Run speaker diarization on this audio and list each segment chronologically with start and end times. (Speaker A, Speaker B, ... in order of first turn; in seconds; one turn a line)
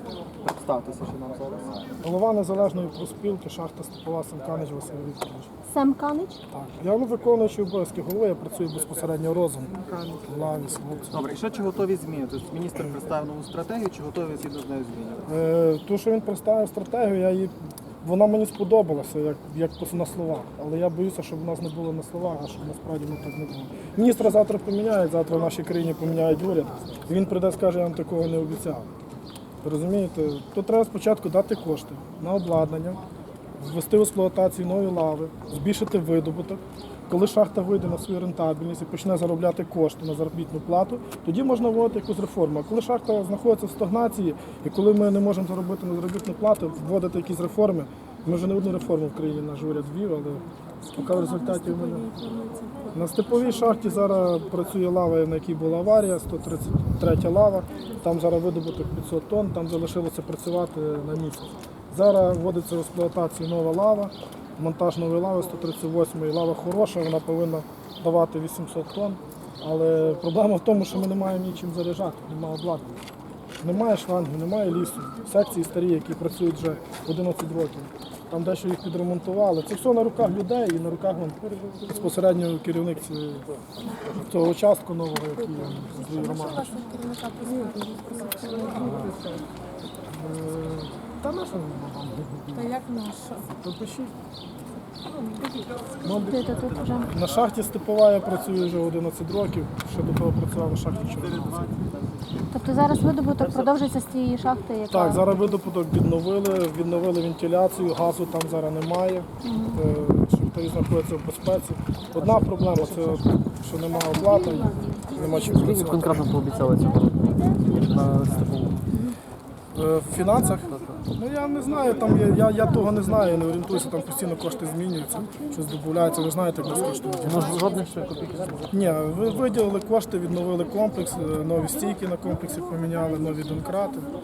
Speaker A: 0.4-1.9
Speaker B: 2.0-5.5
Speaker C: 5.7-6.4
Speaker B: 6.5-11.3
Speaker A: 11.1-15.3
Speaker B: 15.3-28.9
Speaker B: 29.6-33.0
Speaker B: 33.6-52.1
Speaker B: 52.9-73.0
Speaker B: 73.6-83.5
Speaker B: 84.1-86.8
Speaker C: 86.8-88.8
Speaker B: 88.7-89.2
Speaker B: 90.1-92.8
Speaker C: 93.0-93.4
Speaker B: 93.6-94.1
Speaker C: 96.0-97.1
Speaker B: 97.1-101.7
Speaker C: 102.5-105.4
Speaker B: 104.9-116.3
Speaker C: 109.4-109.8
Speaker D: 115.6-118.8
Speaker B: 119.7-127.6
Speaker D: 127.2-128.7
Speaker B: 128.7-134.1